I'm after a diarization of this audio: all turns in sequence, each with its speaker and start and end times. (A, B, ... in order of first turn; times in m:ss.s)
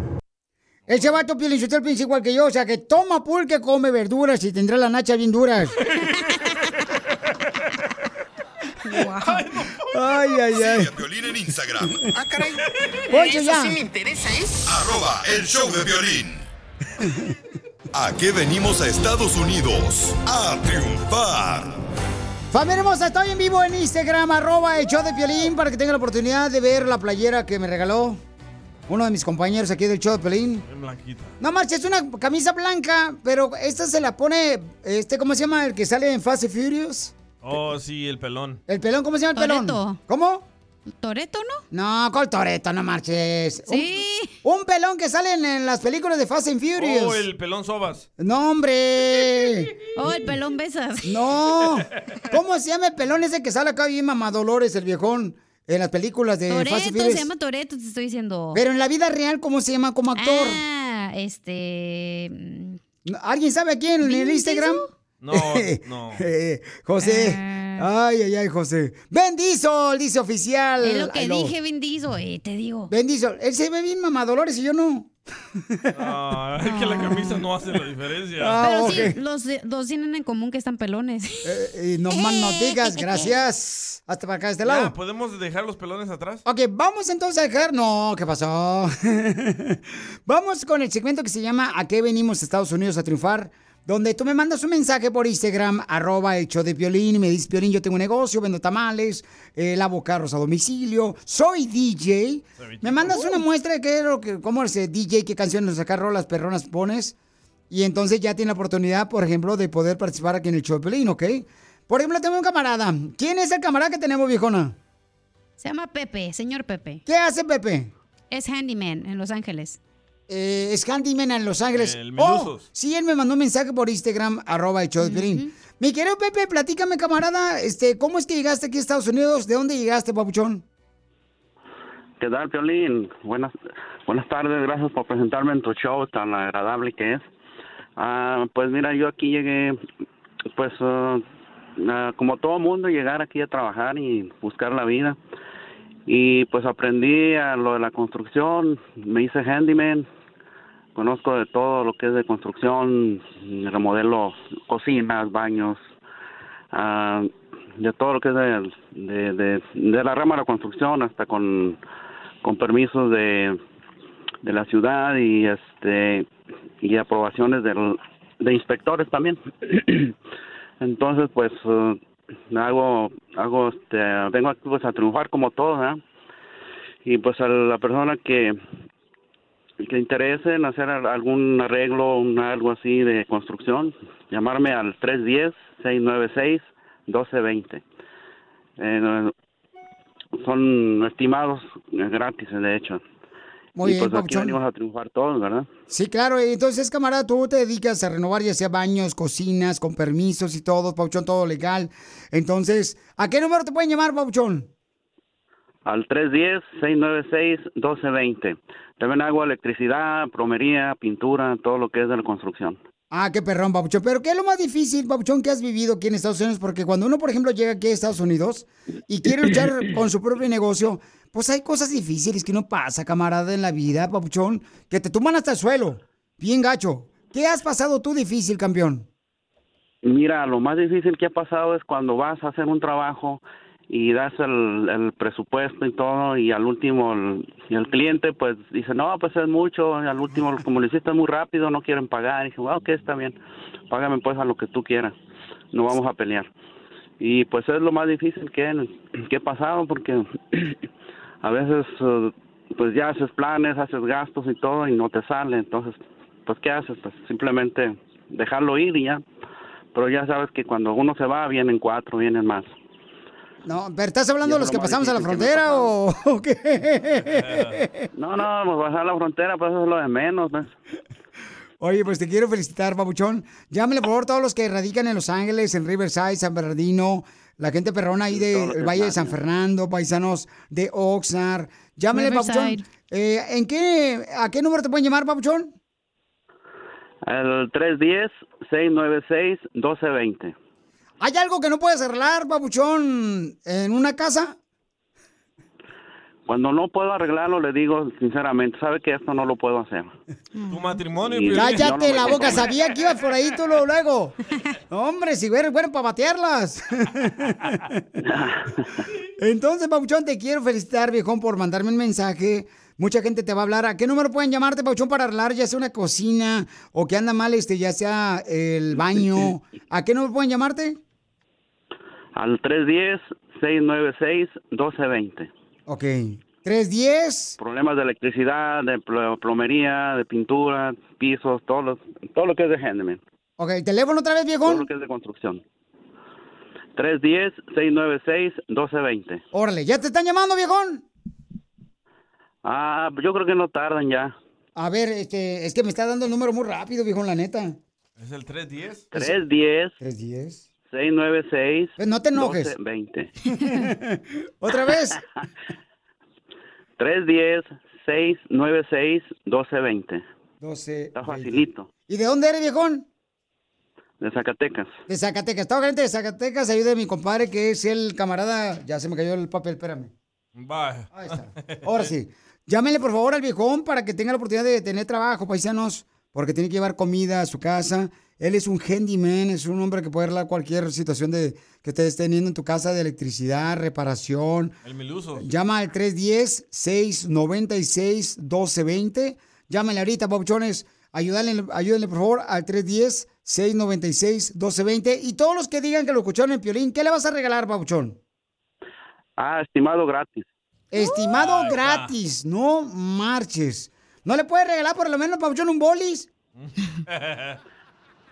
0:00.9-0:05.7 A
0:08.8-0:09.4 B
0:09.2-0:09.8 C
0:09.9-0:10.9 A
0:10.6-0:12.0 D
0:12.1-0:14.6 E
0:13.1-0:13.8 A
0:14.6-0:16.5 D
0:17.9-0:21.8 D
0:22.5-0:28.2 A
0:28.9-0:30.6 A
0:30.7-0:31.3 C
0:31.4-0:37.1 A
0:37.4-0:38.6 C
0:38.7-0:40.4 A
0:39.4-0:40.0 B
0:41.0-0:41.6 B
0:41.7-0:43.9 A
0:43.7-0:44.3 B
0:44.4-0:47.2 A
0:46.8-0:48.1 C
0:48.2-0:49.7 A
0:50.0-0:51.2 B
0:51.0-0:57.3 A
0:56.5-0:58.6 B
0:58.5-1:00.6 A
1:00.2-1:02.8 B
1:03.0-1:11.5 A
1:04.0-1:04.9 B
1:05.2-1:06.2 C
1:07.0-1:07.8 B
1:10.8-1:12.9 B
1:12.9-1:15.9 A
1:15.9-1:18.6 C
1:16.6-1:17.4 B
1:18.4-1:19.2 A
1:18.6-1:21.5 B
1:21.4-1:24.9 A
1:22.1-1:23.3 B
1:24.6-1:26.4 C
1:26.4-1:47.1 A
1:42.6-1:43.4 C
1:47.7-1:54.7 A
1:55.6-1:57.0 B
1:57.0-1:57.9 A
1:58.3-1:59.8 B
2:00.3-2:10.6 A
2:01.7-2:02.7 C
2:05.0-2:05.5 B
2:12.2-2:13.5 F
2:14.1-2:17.2 F
2:18.0-2:19.8 F
2:20.5-2:21.2 F
2:21.8-2:25.2 F
2:26.1-2:30.0 F
2:30.9-2:35.9 F
2:36.7-2:41.8 F
2:42.4-2:43.6 F
2:44.4-2:46.3 F
2:46.8-2:50.1 F
2:50.8-2:52.0 F
2:52.5-2:56.0 F
2:57.0-2:58.6 F
2:59.8-3:07.8 F
3:08.8-3:09.3 F
3:10.4-3:13.0 F
3:13.8-3:14.6 A
3:13.8-3:15.7 F
3:15.9-3:24.7 A
3:25.8-3:32.8 F
3:33.1-3:49.1 A
3:50.0-4:03.4 F
4:03.9-4:05.1 F
4:05.7-4:06.5 F
4:07.2-4:10.8 F
4:11.4-4:19.2 F
4:19.9-4:22.7 F
4:23.6-4:28.1 A
4:24.4-4:25.9 F
4:27.3-4:27.8 C
4:28.2-4:30.7 F
4:31.8-4:45.7 A
4:38.3-4:39.4 F
4:42.1-4:42.8 B
4:47.3-4:50.5 F
4:51.2-4:54.5 A
4:56.5-5:00.1 F
5:00.7-5:02.9 C
5:01.2-5:02.7 F
5:01.5-5:04.4 A
5:04.9-5:08.0 A
5:08.3-5:08.9 F
5:09.4-5:21.0 A
5:22.3-5:25.5 F
5:25.9-5:27.6 A
5:27.6-5:33.2 F
5:33.6-5:34.9 A
5:34.6-5:35.6 F
5:37.0-5:39.4 F
5:39.5-5:41.0 A
5:42.6-5:44.3 F
5:44.8-5:47.8 A
5:48.2-5:49.3 C
5:49.1-5:50.0 F
5:50.0-5:50.6 A
5:50.9-5:53.3 F
5:52.0-5:52.7 A
5:53.5-5:55.2 A
5:57.0-6:00.2 F
6:00.6-6:03.0 A
6:01.2-6:01.9 F
6:04.2-6:05.0 F
6:05.1-6:10.1 A
6:10.6-6:12.1 C
6:11.1-6:24.7 A
6:24.8-6:25.4 C
6:25.4-6:38.2 A
6:39.4-6:40.4 F
6:40.9-6:46.3 A
6:41.1-6:42.1 C
6:46.6-6:47.6 C